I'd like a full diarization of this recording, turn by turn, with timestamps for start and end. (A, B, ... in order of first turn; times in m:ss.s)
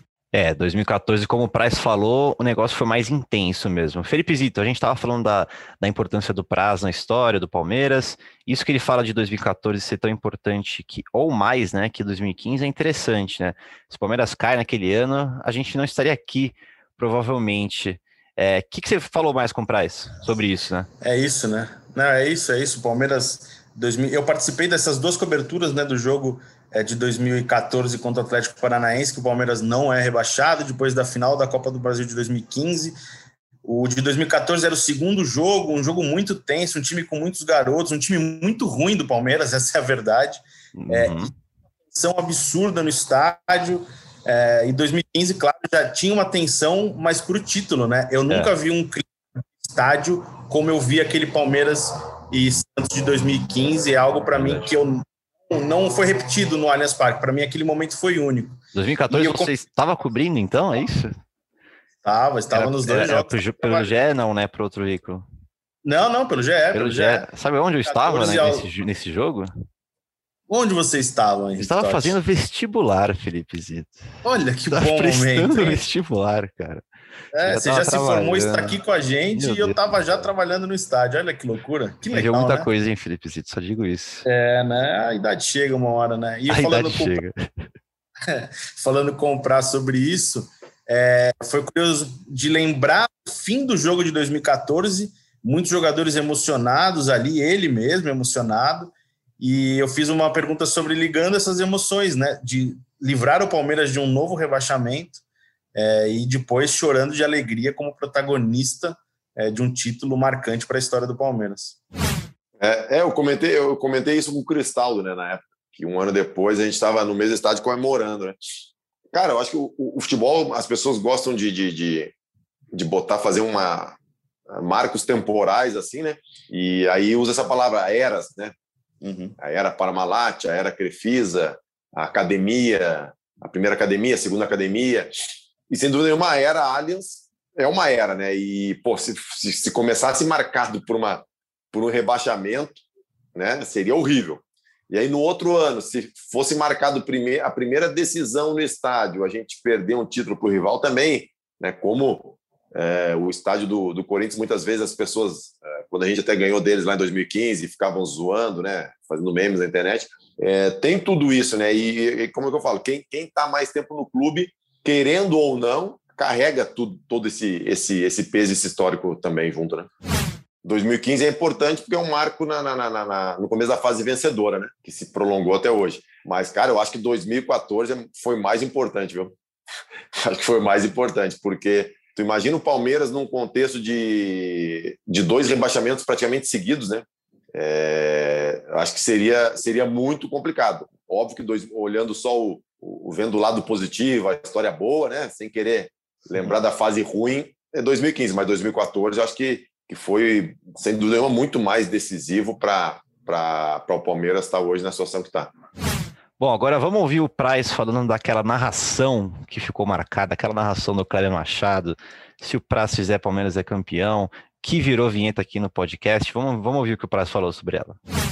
0:00.3-0:20.9 A
0:21.0-0:33.0 B
0:33.6-0:41.3 B
0:40.8-0:41.3 A
0:41.9-0:49.1 B
0:49.6-0:58.6 B
0:54.4-0:54.7 A
0:58.8-1:01.2 A
0:59.1-0:59.5 B
1:02.0-1:03.9 B
1:02.5-1:05.2 A
1:05.8-1:07.3 B
1:06.7-1:09.5 A
1:07.9-1:08.7 B
1:10.5-1:12.2 B
1:11.6-1:14.1 A
1:14.2-1:15.8 B
1:14.7-1:16.8 A
1:17.3-1:22.7 B
1:17.4-1:18.8 A
1:19.4-1:20.1 A
1:22.1-1:24.2 A
1:24.2-1:27.2 B
1:26.5-1:27.4 A
1:28.3-1:45.2 B
1:45.7-1:51.8 B
1:52.6-1:58.4 C
1:59.1-2:02.1 C
2:02.7-2:04.0 C
2:04.5-2:08.6 C
2:09.0-2:09.4 B
2:09.4-2:15.1 C
2:15.7-2:22.8 C
2:23.4-2:49.9 C
2:50.6-2:59.4 C
3:00.2-3:25.5 C
3:26.4-3:38.0 A